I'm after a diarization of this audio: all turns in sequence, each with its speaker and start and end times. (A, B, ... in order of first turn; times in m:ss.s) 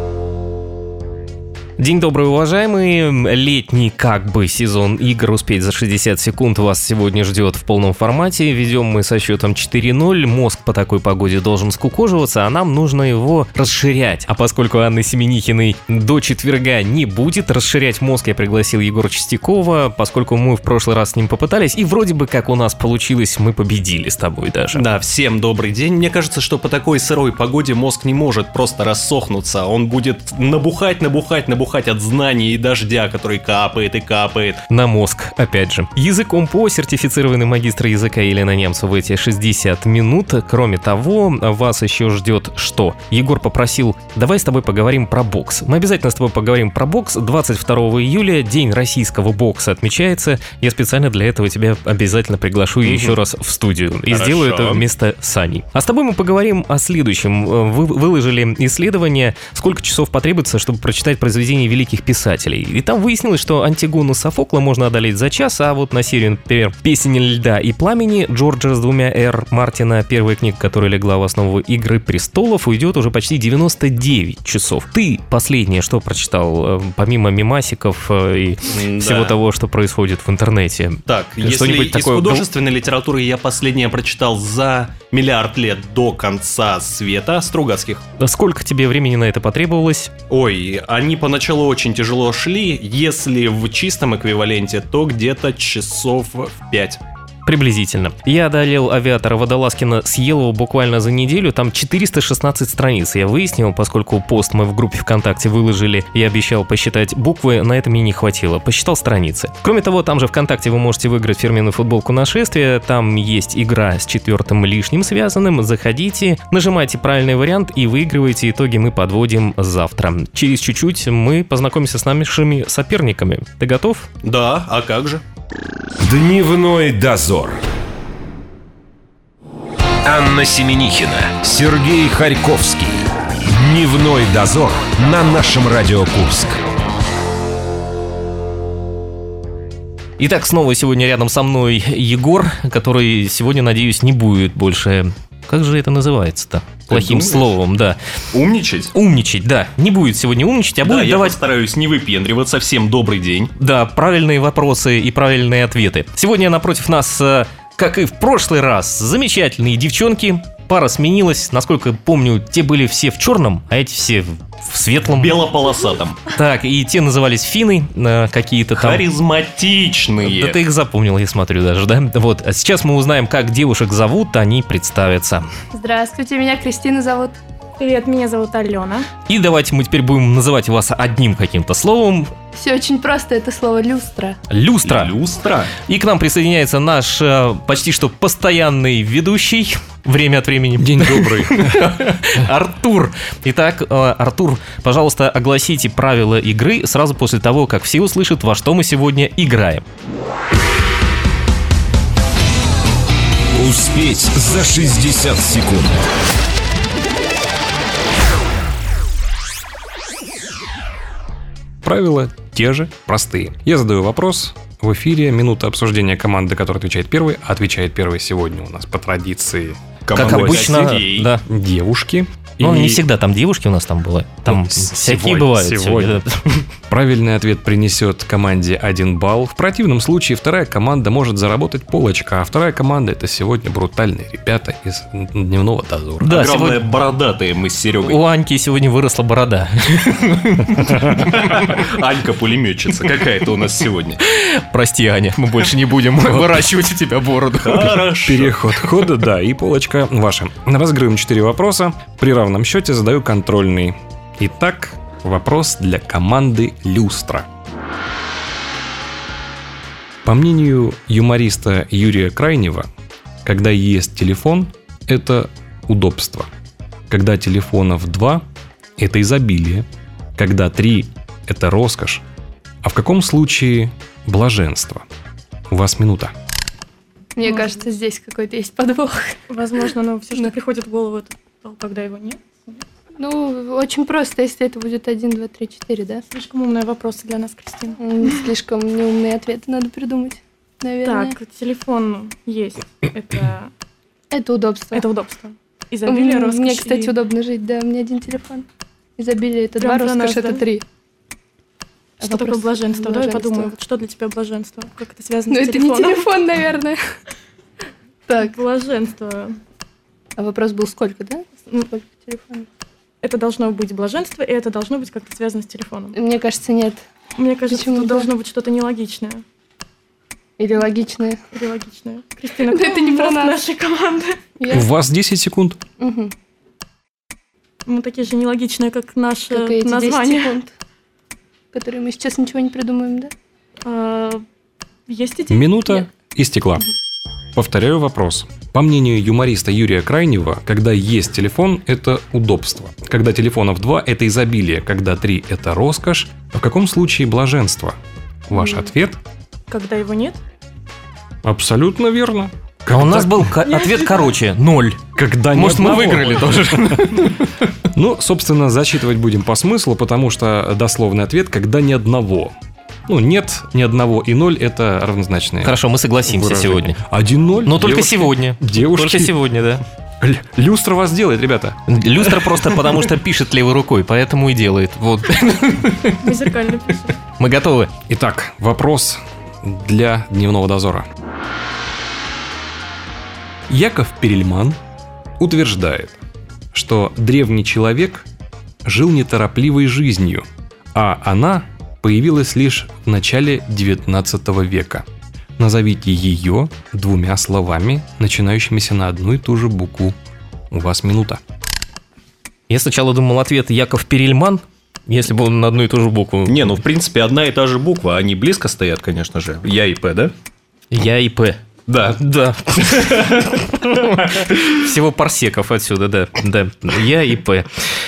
0:01.8-0:24.8 A
0:24.7-0:34.6 B
0:34.7-1:22.4 A
0:52.8-0:53.1 B
0:54.1-0:54.8 B
1:18.7-1:19.4 B
1:21.0-1:28.0 B
1:28.2-1:30.1 A
1:30.3-1:37.0 B
1:37.4-2:04.1 A
2:04.2-2:05.2 B
2:06.0-2:07.6 C
2:10.0-2:16.6 C
2:20.2-2:28.0 A
2:26.9-2:27.6 B
2:28.3-2:28.9 B
2:28.9-2:31.4 A
2:30.8-2:33.5 B
2:33.6-2:45.4 A
2:45.1-2:46.2 B
2:46.2-2:49.0 A
2:48.7-2:50.6 B
2:50.2-2:55.4 A
2:55.7-2:57.4 D
2:57.8-2:59.0 E
2:59.3-3:02.3 A
3:02.5-3:04.4 D
3:04.5-3:05.1 A
3:04.8-3:05.7 B
3:05.8-3:19.8 A
3:10.8-3:11.9 F
3:23.5-3:26.0 C
3:31.8-3:40.6 F
3:40.1-3:41.3 B
3:40.1-3:41.4 A
3:41.4-3:43.0 F
3:42.6-3:46.5 A
3:44.5-3:46.2 F
3:46.9-3:56.3 F
3:56.2-3:56.8 A
3:56.3-3:58.2 B
3:58.0-4:01.6 A
4:01.1-4:04.2 B
4:04.2-4:08.0 A
4:07.6-4:08.7 B
4:08.2-4:17.5 F
4:20.2-4:22.9 F
4:23.4-4:26.5 F
4:27.1-4:28.4 F
4:29.0-4:32.2 F
4:32.8-4:35.0 F
4:35.7-4:36.3 F
4:37.4-4:39.4 D
4:39.5-4:42.1 B
4:39.6-4:41.2 E
4:41.8-4:42.3 E
4:43.2-4:46.2 D
4:46.3-4:47.9 B
4:46.7-4:47.9 E
4:48.0-4:51.4 D
4:51.0-4:53.7 B
4:51.1-4:53.6 E
4:54.3-4:55.1 D
4:55.0-4:55.4 E
4:55.4-4:56.6 B
4:56.0-4:58.6 D
4:56.1-4:57.1 E
4:59.2-5:00.8 D
4:59.8-5:00.6 E
5:02.2-5:03.7 D
5:02.4-5:05.9 B
5:03.9-5:06.2 E
5:05.5-5:07.0 D
5:08.3-5:08.6 D
5:08.6-5:09.4 E
5:08.7-5:09.3 B
5:10.4-5:12.6 D
5:13.2-5:14.3 B
5:13.3-5:16.1 E
5:16.1-5:17.0 D
5:17.4-5:18.8 B
5:17.7-5:18.3 D
5:18.5-5:19.3 E
5:20.6-5:21.4 D
5:21.6-5:24.4 B
5:22.6-5:23.6 D
5:22.8-5:24.1 E
5:24.6-5:24.9 D
5:24.7-5:25.8 F
5:26.0-5:26.3 D
5:27.9-5:29.1 B
5:28.2-5:30.4 E
5:29.5-5:30.7 D
5:29.8-5:30.1 B
5:31.7-5:33.3 D
5:34.0-5:34.3 E
5:35.2-5:36.0 E
5:35.5-5:36.9 F
5:37.5-5:48.0 F
5:48.5-5:49.2 F
5:49.7-5:50.4 E
5:51.4-5:53.6 F
5:52.9-5:57.6 A
5:55.1-5:56.5 F
5:57.9-6:02.5 F
6:03.1-6:09.3 F
6:05.6-6:07.0 A
6:07.6-6:09.8 A
6:10.2-6:12.7 F
6:11.9-6:16.4 A
6:16.2-6:16.8 E
6:16.6-6:17.1 B
6:17.4-6:17.9 A
6:18.1-6:21.0 F
6:23.7-6:24.8 F
6:25.4-6:26.2 F
6:26.7-6:28.2 F
6:28.8-6:35.0 F
6:35.6-6:40.1 F
6:40.7-6:41.4 F
6:42.7-6:46.7 A
6:46.5-6:50.3 B
6:50.9-6:51.6 A
6:51.9-6:52.2 B
6:52.1-6:57.7 A
6:52.8-6:53.6 B